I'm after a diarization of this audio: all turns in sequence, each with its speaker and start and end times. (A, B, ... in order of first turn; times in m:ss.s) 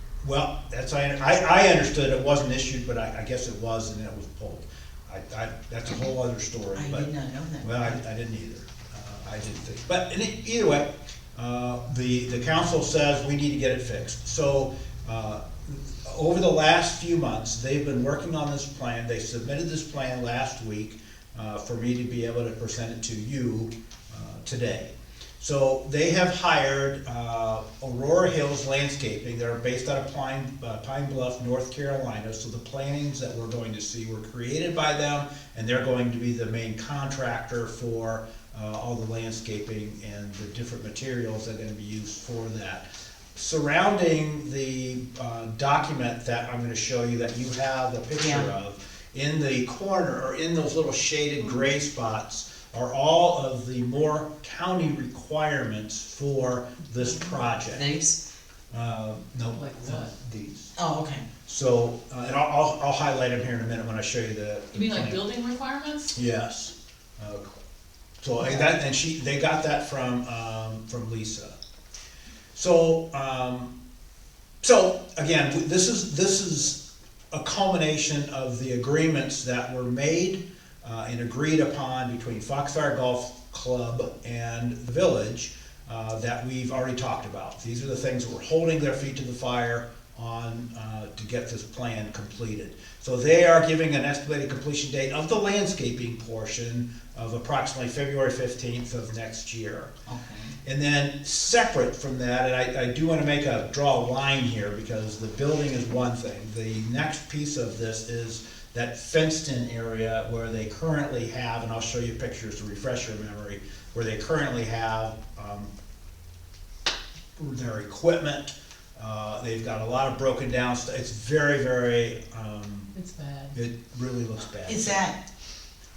0:00.2-0:07.1 A
0:06.8-0:08.0 B
0:07.6-0:57.9 A
0:48.2-0:48.5 B
0:57.7-0:58.2 B
0:58.7-1:00.8 A
0:59.5-1:00.1 C
1:00.8-1:01.3 B
1:01.5-1:05.3 A
1:04.7-1:06.2 C
1:06.1-1:07.6 A
1:08.2-1:11.6 A
1:12.6-1:13.7 A
1:14.6-1:39.9 A
1:40.1-1:40.6 B
1:40.6-1:55.7 A
1:57.4-2:02.9 A
2:02.9-2:03.6 C
2:03.5-2:05.0 A
2:04.6-2:05.2 B